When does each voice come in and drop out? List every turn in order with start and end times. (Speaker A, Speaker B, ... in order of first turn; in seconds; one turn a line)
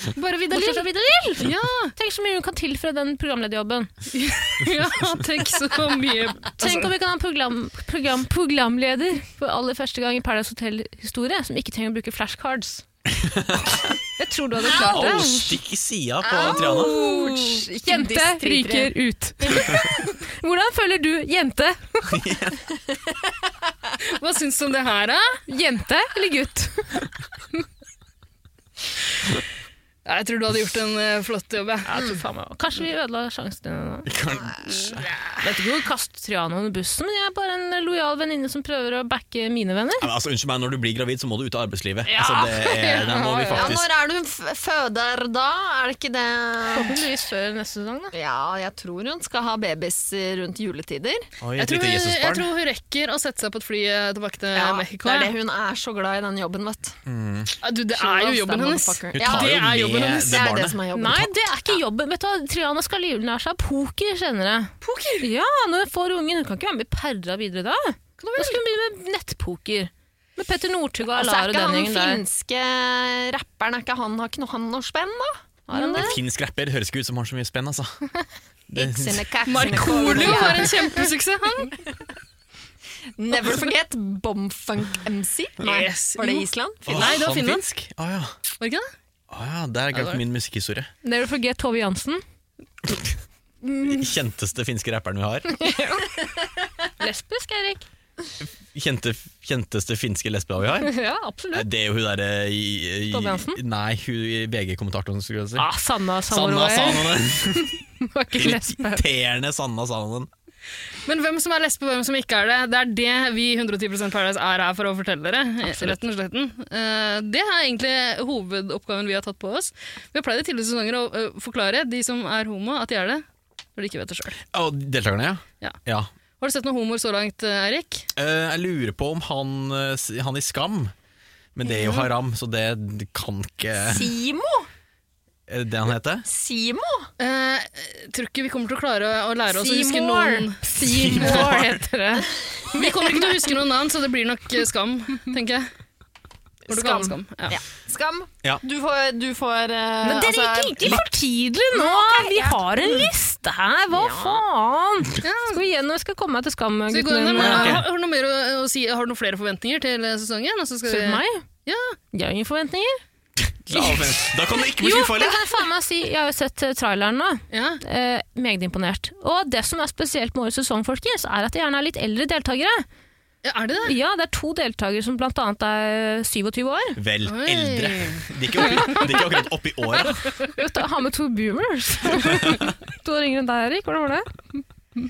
Speaker A: 0.2-0.8
Speaker B: 0.5-3.9
Speaker A: 1.4-1.9
Speaker A: 4.1-6.9
Speaker B: 6.6-12.8
Speaker C: 13.1-13.9
Speaker B: 14.2-15.5
Speaker C: 14.7-17.0
Speaker D: 14.7-15.3
Speaker D: 16.2-18.9
Speaker B: 16.4-22.2
Speaker C: 22.1-22.6
Speaker A: 24.1-25.4
Speaker B: 25.5-27.0
Speaker A: 30.0-31.9
Speaker B: 31.9-34.1
Speaker C: 34.0-35.1
Speaker B: 35.4-40.1
Speaker C: 40.0-43.9
Speaker B: 42.1-43.8
Speaker D: 43.5-47.0
Speaker B: 46.7-48.1
Speaker D: 48.1-51.3
Speaker C: 51.4-52.5
Speaker A: 51.6-55.3
Speaker D: 54.5-57.0
Speaker C: 57.0-57.5
Speaker A: 57.6-60.4
Speaker D: 57.9-61.3
Speaker C: 59.1-60.8
Speaker B: 60.9-72.2
Speaker A: 64.8-65.2
Speaker D: 68.2-68.5
Speaker D: 71.1-75.9
Speaker B: 75.7-76.2
Speaker C: 75.9-78.0
Speaker C: 78.7-80.5
Speaker D: 78.7-81.0
Speaker A: 79.5-81.8
Speaker D: 83.2-87.1
Speaker A: 85.6-87.6
Speaker C: 86.9-88.3
Speaker A: 88.6-88.9
Speaker C: 89.3-90.9
Speaker A: 89.9-90.2
Speaker B: 91.0-92.2
Speaker C: 92.8-93.1
Speaker C: 93.8-95.5
Speaker B: 95.6-96.1
Speaker B: 97.0-97.8
Speaker C: 98.4-101.0
Speaker B: 100.8-101.7
Speaker C: 101.5-105.7
Speaker B: 103.1-103.6
Speaker B: 105.6-109.0
Speaker C: 106.3-107.8
Speaker C: 108.4-110.3
Speaker A: 111.0-123.2
Speaker A: 123.8-124.4
Speaker C: 124.5-126.1
Speaker A: 126.4-128.1
Speaker C: 128.2-130.9
Speaker C: 131.5-134.1
Speaker A: 131.7-132.1
Speaker D: 133.9-134.7
Speaker C: 135.5-136.2
Speaker D: 136.2-137.1
Speaker A: 137.2-140.7
Speaker B: 139.5-143.3
Speaker C: 140.8-141.8
Speaker A: 142.7-145.7
Speaker A: 146.7-147.6
Speaker D: 146.7-151.1
Speaker B: 150.0-157.8
Speaker D: 151.7-153.1
Speaker D: 153.9-154.4
Speaker A: 155.2-155.6
Speaker A: 156.9-162.0
Speaker C: 157.4-157.9
Speaker B: 160.9-161.4
Speaker B: 162.1-163.0
Speaker C: 163.4-165.5
Speaker B: 163.7-164.1
Speaker B: 164.7-172.8
Speaker A: 167.5-167.8
Speaker A: 173.4-173.9
Speaker B: 173.8-177.0
Speaker C: 176.9-180.2
Speaker A: 177.2-179.1
Speaker B: 180.5-184.6